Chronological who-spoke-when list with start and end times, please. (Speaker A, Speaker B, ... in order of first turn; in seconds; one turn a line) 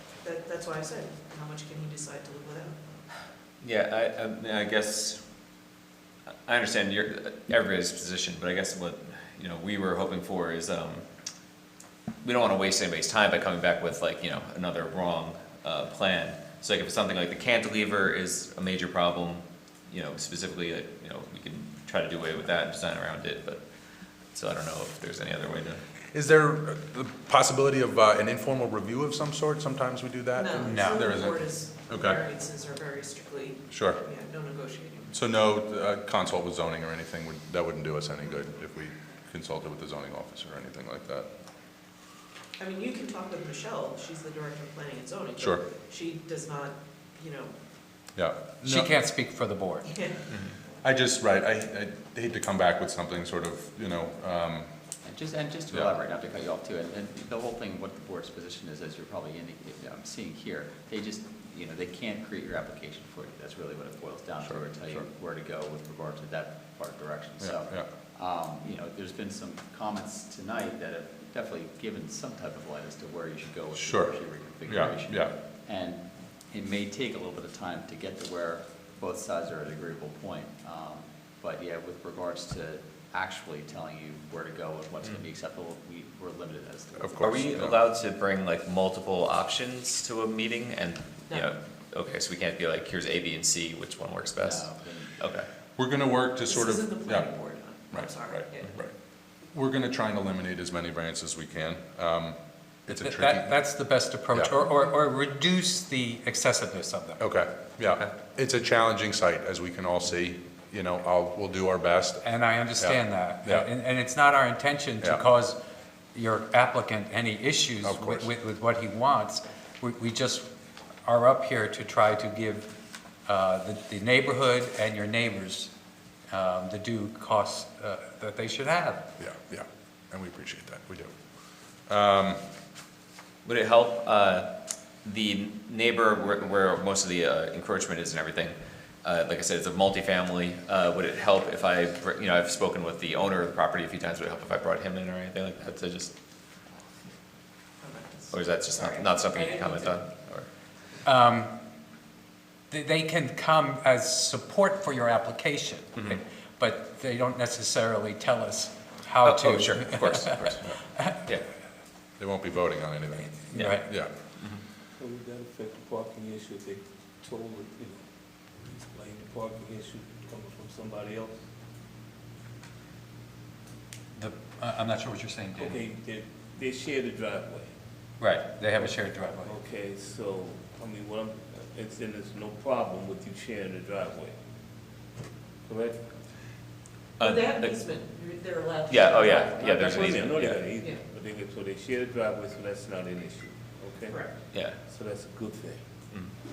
Speaker A: 0.2-2.8
Speaker B: 3.6-5.2
Speaker B: 6.4-11.0
Speaker B: 12.2-23.6
Speaker B: 24.3-25.8
Speaker C: 26.1-32.2
Speaker A: 30.3-35.1
Speaker D: 30.6-31.0
Speaker C: 33.7-34.0
Speaker C: 35.1-41.3
Speaker A: 42.6-47.6
Speaker C: 45.4-45.6
Speaker C: 48.1-48.9
Speaker D: 48.6-49.9
Speaker A: 49.8-50.2
Speaker C: 50.8-54.7
Speaker E: 55.0-87.4
Speaker C: 55.7-56.0
Speaker C: 64.4-65.1
Speaker C: 67.4-67.9
Speaker C: 73.8-74.1
Speaker C: 74.6-75.3
Speaker C: 87.0-87.8
Speaker B: 87.2-94.7
Speaker E: 94.4-95.2
Speaker B: 95.2-95.5
Speaker C: 95.8-97.3
Speaker A: 96.4-98.7
Speaker C: 97.9-98.9
Speaker C: 99.5-103.6
Speaker D: 102.9-107.2
Speaker C: 107.2-112.2
Speaker D: 112.2-115.6
Speaker C: 112.8-113.7
Speaker D: 116.1-120.5
Speaker C: 117.8-118.3
Speaker D: 121.0-122.7
Speaker D: 123.2-125.7
Speaker D: 126.3-129.1
Speaker C: 129.2-131.1
Speaker C: 131.8-132.4
Speaker B: 133.4-134.5
Speaker B: 135.0-146.1
Speaker A: 147.8-149.9
Speaker B: 148.3-150.5
Speaker D: 151.0-151.5
Speaker D: 152.7-161.1
Speaker B: 159.2-160.6
Speaker C: 162.2-164.1
Speaker D: 163.5-163.9
Speaker B: 163.5-163.8
Speaker F: 165.0-168.0
Speaker F: 168.6-171.3
Speaker D: 174.2-175.8
Speaker F: 175.5-177.7
Speaker D: 178.2-179.5
Speaker F: 178.7-184.3
Speaker F: 185.7-186.0
Speaker B: 187.2-187.7
Speaker A: 187.2-189.9
Speaker B: 188.9-190.7
Speaker F: 189.3-194.2
Speaker A: 190.7-191.0
Speaker A: 194.1-194.4
Speaker B: 194.5-194.8
Speaker F: 194.8-195.8